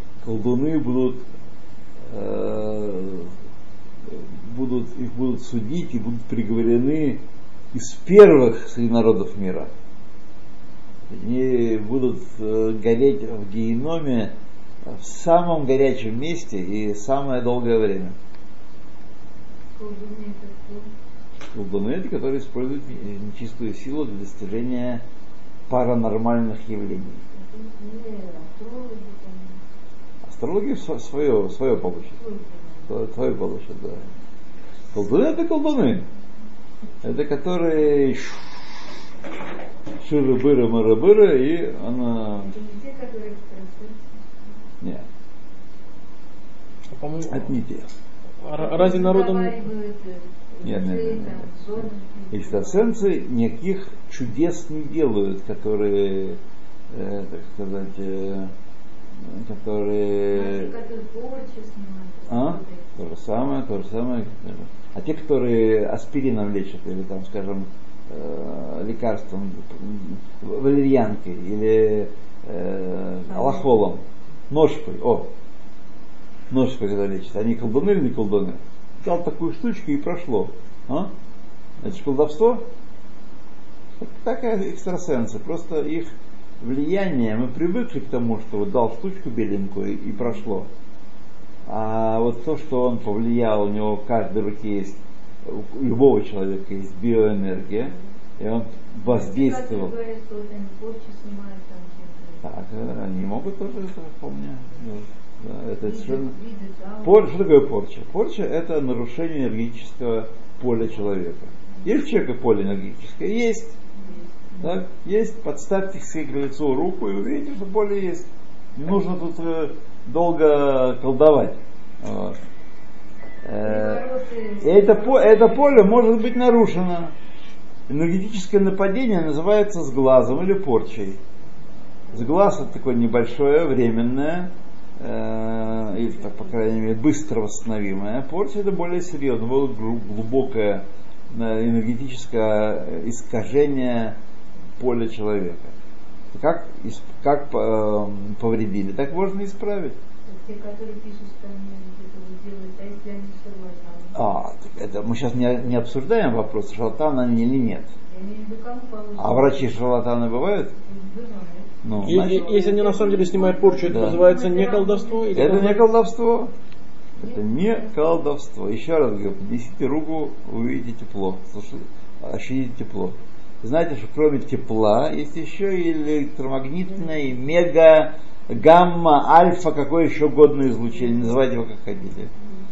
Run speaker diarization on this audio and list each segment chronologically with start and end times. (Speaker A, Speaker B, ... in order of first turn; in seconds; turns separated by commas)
Speaker A: 0.2-1.2, Speaker A: 2.1-3.3, Speaker A: 4.1-9.7, Speaker A: 11.1-18.2, Speaker B: 19.8-20.9, Speaker A: 21.5-25.0, Speaker A: 25.7-27.2, Speaker B: 27.4-29.6, Speaker A: 30.2-32.2, Speaker B: 32.2-32.8, Speaker A: 32.9-34.0, Speaker A: 34.9-36.1, Speaker A: 37.0-38.4, Speaker A: 40.0-42.5, Speaker B: 42.3-44.1, Speaker C: 46.9-47.5, Speaker A: 47.3-47.9, Speaker C: 48.4-49.6, Speaker B: 48.6-53.0, Speaker A: 50.6-51.5, Speaker A: 52.3-56.4, Speaker A: 56.9-58.5, Speaker A: 59.2-60.8, Speaker B: 60.3-62.9, Speaker A: 62.3-75.3, Speaker A: 76.5-81.1, Speaker A: 81.8-82.7, Speaker A: 84.0-90.7, Speaker A: 91.7-99.9, Speaker B: 99.0-102.4, Speaker A: 102.4-106.3, Speaker B: 105.8-107.5, Speaker A: 107.0-113.8, Speaker B: 114.0-114.8, Speaker A: 114.6-122.4, Speaker A: 123.4-124.1, Speaker B: 123.6-125.7, Speaker A: 124.6-127.1, Speaker A: 127.9-131.2, Speaker A: 132.1-144.2, Speaker A: 144.8-145.7, Speaker A: 146.3-150.0, Speaker B: 150.3-154.2, Speaker A: 154.1-157.9, Speaker B: 158.1-159.7, Speaker A: 159.2-160.7, Speaker B: 160.8-165.7, Speaker A: 161.8-162.5, Speaker C: 162.0-165.8, Speaker A: 163.9-164.2, Speaker A: 165.3-166.5, Speaker A: 167.2-182.3, Speaker B: 167.2-168.0